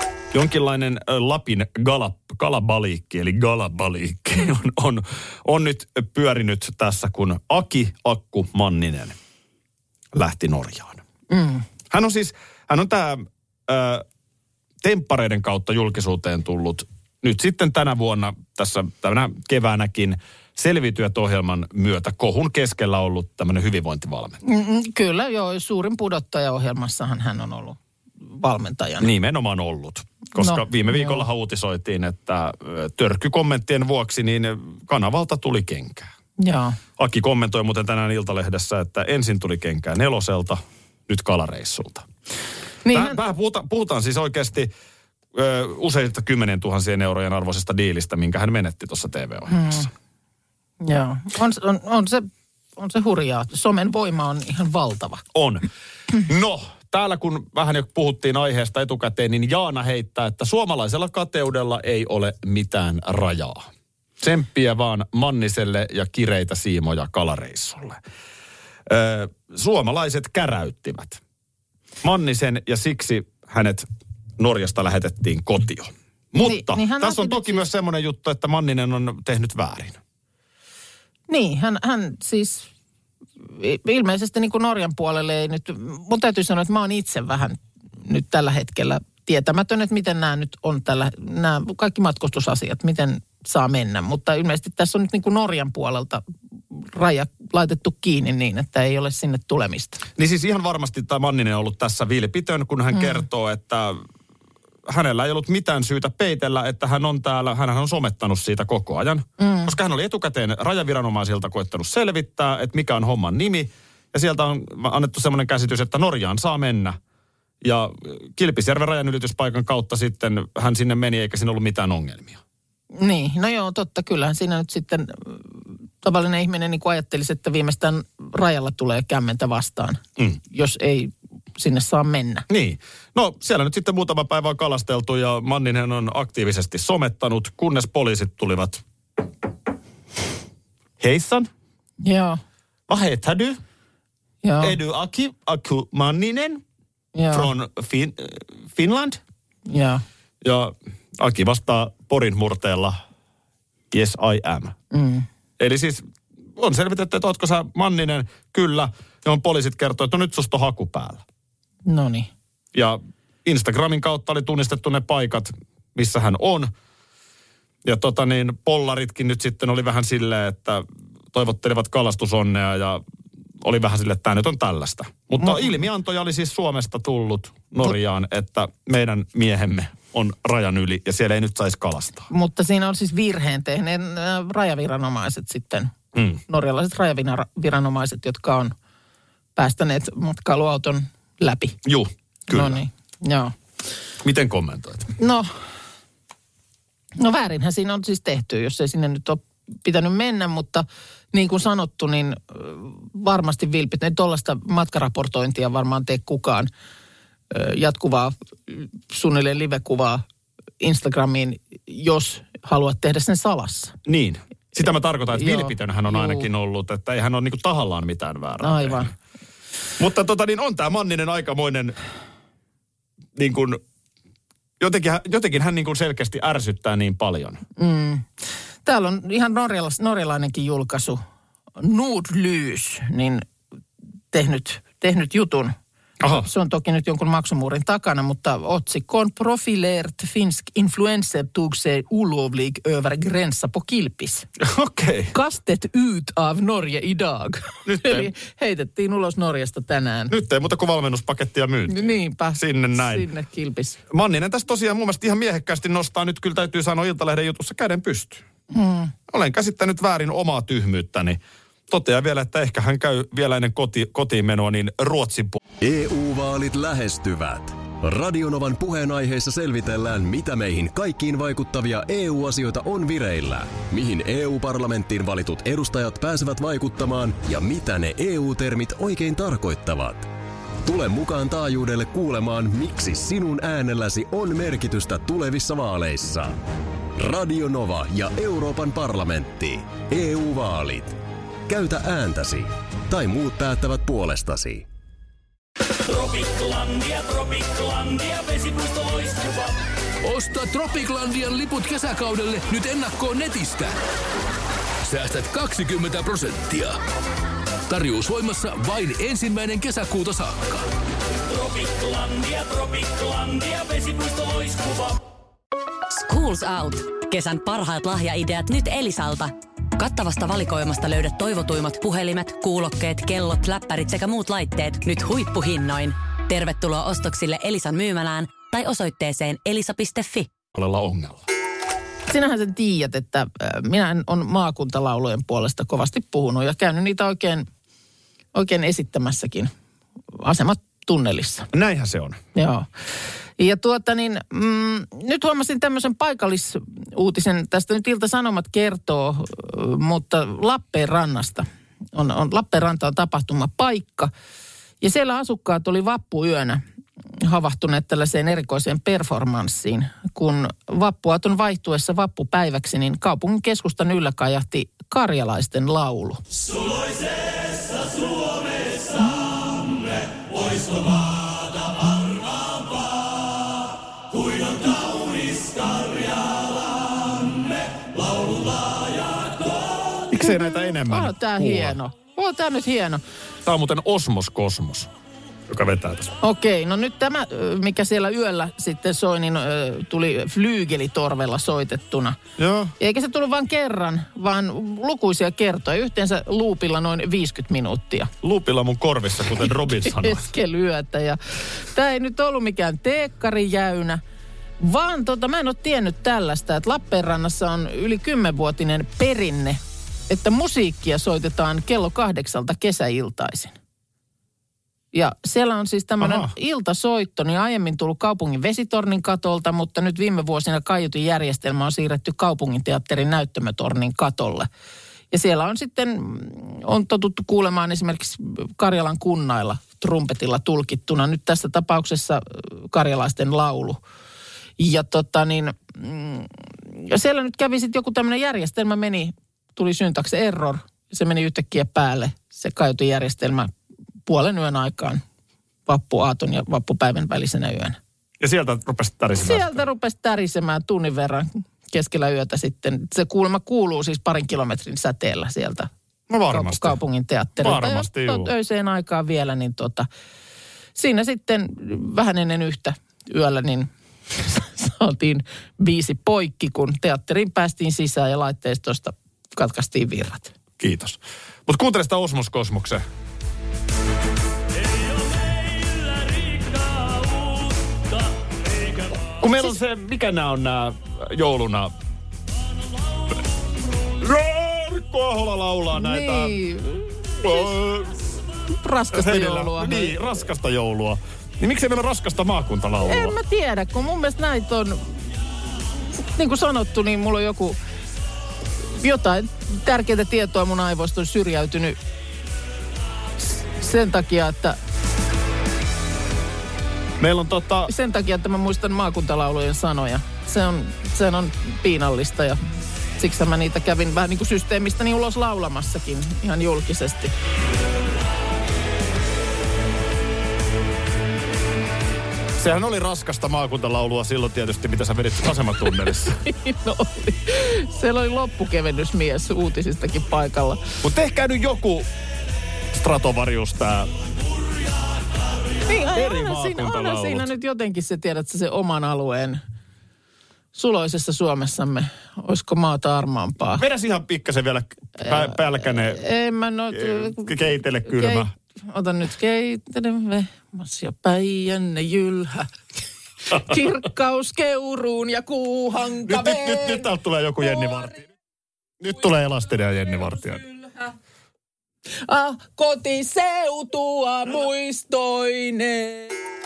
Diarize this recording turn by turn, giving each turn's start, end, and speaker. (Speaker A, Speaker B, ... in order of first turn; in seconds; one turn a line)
Speaker A: 0.3-9.2
Speaker A: 10.1-11.0
Speaker B: 11.3-11.7
Speaker A: 11.9-14.1
Speaker A: 14.8-24.4
Speaker B: 24.4-29.1
Speaker A: 29.0-36.1
Speaker B: 30.4-31.2
Speaker B: 36.4-36.8
Speaker A: 37.0-42.1
Speaker B: 42.9-43.2
Speaker A: 42.9-44.7
Speaker A: 45.3-49.9
Speaker B: 49.5-49.9
Speaker B: 50.8-55.2
Speaker A: 55.3-55.7
Speaker A: 56.2-63.7
Speaker A: 64.2-68.0
Speaker A: 68.9-71.2
Speaker A: 72.0-73.9
Speaker A: 74.4-80.0
Speaker B: 76.4-77.7
Speaker B: 81.3-82.7
Speaker B: 83.5-100.0
Speaker A: 100.2-104.0
Speaker A: 104.9-117.0
Speaker B: 109.4-109.7
Speaker A: 117.6-122.4
Speaker B: 122.9-132.5
Speaker A: 132.5-138.8
Speaker A: 141.0-141.5
Speaker B: 142.0-142.4
Speaker A: 142.9-143.6
Speaker B: 144.4-144.8
Speaker A: 144.6-146.6
Speaker B: 147.2-147.5
Speaker A: 147.3-149.2
Speaker B: 149.7-150.0
Speaker A: 150.4-153.0
Speaker A: 153.9-154.8
Speaker B: 154.9-155.3
Speaker A: 155.6-156.0
Speaker A: 156.6-161.2
Speaker B: 161.9-162.3
Speaker A: 162.7-166.7
Speaker A: 167.8-173.0
Speaker A: 173.6-182.3
Speaker B: 175.4-175.7
Speaker B: 182.3-185.9
Speaker A: 186.2-186.4
Speaker B: 186.5-188.7
Speaker B: 189.6-191.8
Speaker A: 191.8-192.8
Speaker B: 192.5-193.5
Speaker A: 194.2-195.2
Speaker B: 195.2-195.5
Speaker B: 197.2-206.7
Speaker B: 207.5-210.2
Speaker B: 210.8-214.0
Speaker A: 214.1-219.1
Speaker B: 215.3-216.5
Speaker B: 218.6-219.1
Speaker A: 220.0-221.9
Speaker A: 223.3-223.8
Speaker A: 224.8-227.6
Speaker B: 227.8-228.3
Speaker B: 228.8-231.2
Speaker B: 231.8-233.4
Speaker B: 234.3-235.7
Speaker A: 236.2-236.5
Speaker B: 236.3-244.5
Speaker A: 244.6-245.3
Speaker B: 245.3-250.3
Speaker A: 247.9-248.3
Speaker A: 250.3-253.3
Speaker B: 251.9-254.0
Speaker A: 254.1-258.4
Speaker B: 258.7-259.1
Speaker A: 259.3-265.6
Speaker C: 265.8-280.3
Speaker C: 280.8-286.6
Speaker C: 287.1-294.9
Speaker D: 298.8-299.6
Speaker D: 300.2-304.0
Speaker D: 305.0-307.0
Speaker D: 307.9-310.9
Speaker D: 311.5-315.1
Speaker E: 316.1-330.5
Speaker A: 330.7-331.4
Speaker B: 332.3-337.7
Speaker B: 338.5-339.7
Speaker B: 340.4-341.7
Speaker A: 341.7-342.4
Speaker B: 342.6-342.9
Speaker B: 343.6-354.3
Speaker B: 355.0-356.8
Speaker B: 357.4-366.4
Speaker A: 380.3-382.0
Speaker B: 380.4-383.2
Speaker A: 383.6-385.1
Speaker A: 385.7-386.4
Speaker B: 386.4-392.4
Speaker A: 392.6-392.9
Speaker B: 393.0-398.3
Speaker A: 398.4-400.5
Speaker B: 400.0-404.2
Speaker B: 404.8-413.8
Speaker B: 415.1-424.7
Speaker A: 416.2-416.5
Speaker B: 425.3-434.0
Speaker B: 434.8-443.7
Speaker B: 444.3-445.2
Speaker B: 445.9-448.0
Speaker A: 448.4-449.8
Speaker B: 449.4-455.9
Speaker A: 456.3-457.0
Speaker B: 456.5-460.1
Speaker A: 457.6-458.5
Speaker B: 461.0-470.5
Speaker A: 470.8-473.0
Speaker A: 479.3-481.9
Speaker A: 484.2-486.6
Speaker B: 485.9-487.7
Speaker A: 487.4-488.2
Speaker B: 488.8-490.1
Speaker A: 489.1-493.4
Speaker B: 493.0-495.1
Speaker B: 496.2-497.8
Speaker B: 499.0-502.0
Speaker B: 503.8-504.8
Speaker A: 507.2-507.9
Speaker B: 507.9-512.6
Speaker B: 513.2-517.3
Speaker A: 522.6-526.4
Speaker B: 526.4-530.8
Speaker A: 531.0-532.1
Speaker A: 532.9-534.1
Speaker B: 535.9-539.6
Speaker A: 536.1-537.5
Speaker B: 540.7-543.8
Speaker A: 543.8-546.2
Speaker B: 545.2-552.7
Speaker A: 546.9-548.5
Speaker B: 553.5-557.1
Speaker A: 556.3-558.3
Speaker A: 559.0-560.6
Speaker B: 562.2-566.4